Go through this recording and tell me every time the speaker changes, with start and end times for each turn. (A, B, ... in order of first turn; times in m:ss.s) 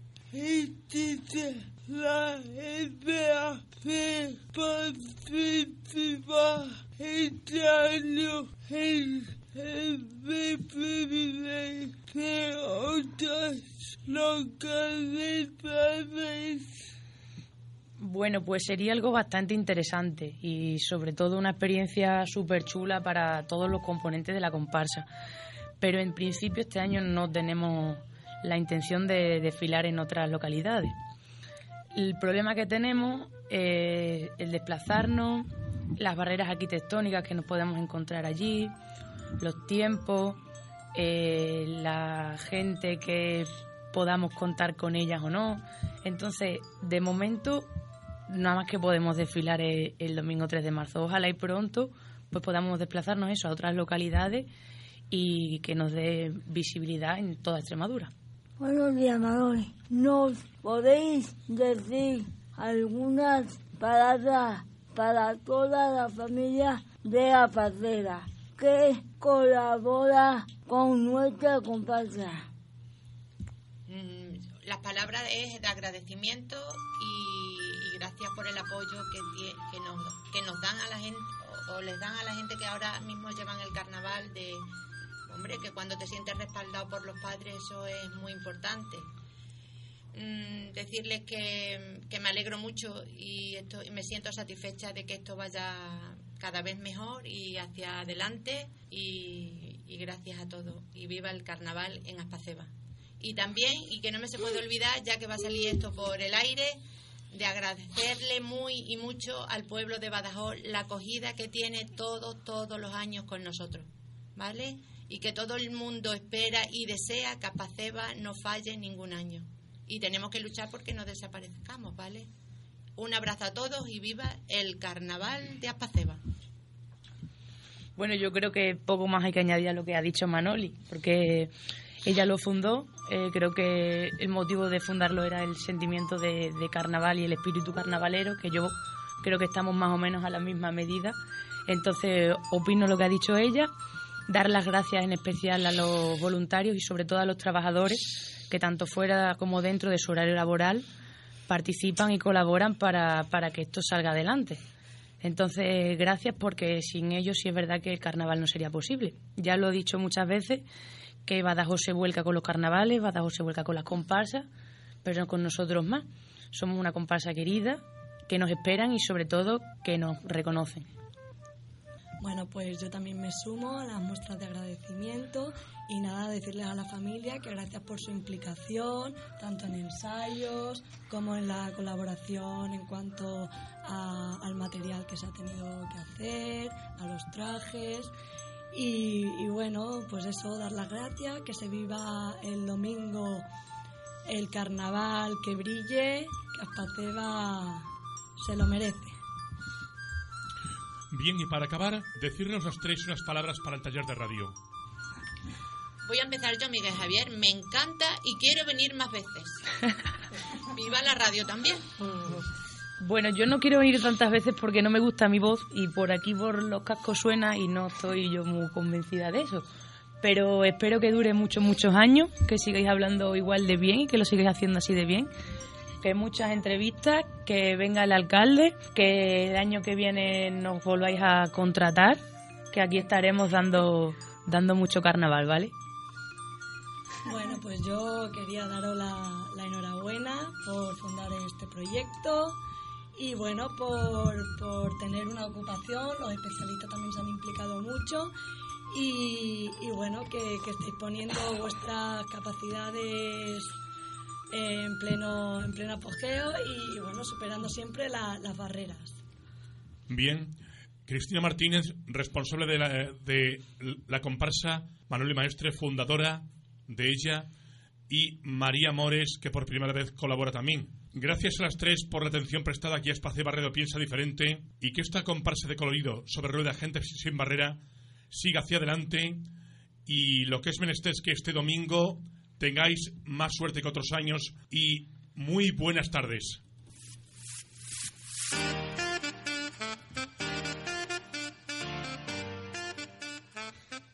0:00.3-0:16.7 A
0:18.0-0:25.0 B
0:25.8-0:30.9 B
0:31.9-0:38.7 B
0:39.4-0:40.4 B
0:40.9-0:47.7 B
0:48.3-0:54.5 B
0:55.1-0:58.1 B
0:58.6-1:12.5 C
1:13.9-1:24.7 D
1:25.3-1:29.0 D
1:30.1-1:46.8 D
1:47.3-2:02.3 D
2:03.0-2:06.2 D
2:08.0-2:11.5 B
2:12.0-2:23.7 B
2:24.3-2:30.8 B
2:31.5-2:34.6 B
2:35.2-2:40.6 B
2:41.2-2:44.4 B
2:45.0-2:50.9 B
2:52.2-3:08.1 E
3:08.7-3:13.4 E
3:14.3-3:17.8 E
3:18.4-3:19.1 E
3:21.1-3:24.5 F
3:26.0-3:29.6 D
3:30.7-3:31.8 D
3:33.0-3:39.6 B
3:40.2-3:45.3 B
3:46.0-3:55.7 B
3:57.2-4:02.6 E
4:03.2-4:08.3 E
4:08.9-4:13.7 E
4:14.5-4:19.2 E
4:20.1-4:20.5 F
4:21.1-4:27.5 F
4:28.1-4:37.8 F
4:38.3-4:39.4 F
4:40.1-4:46.6 F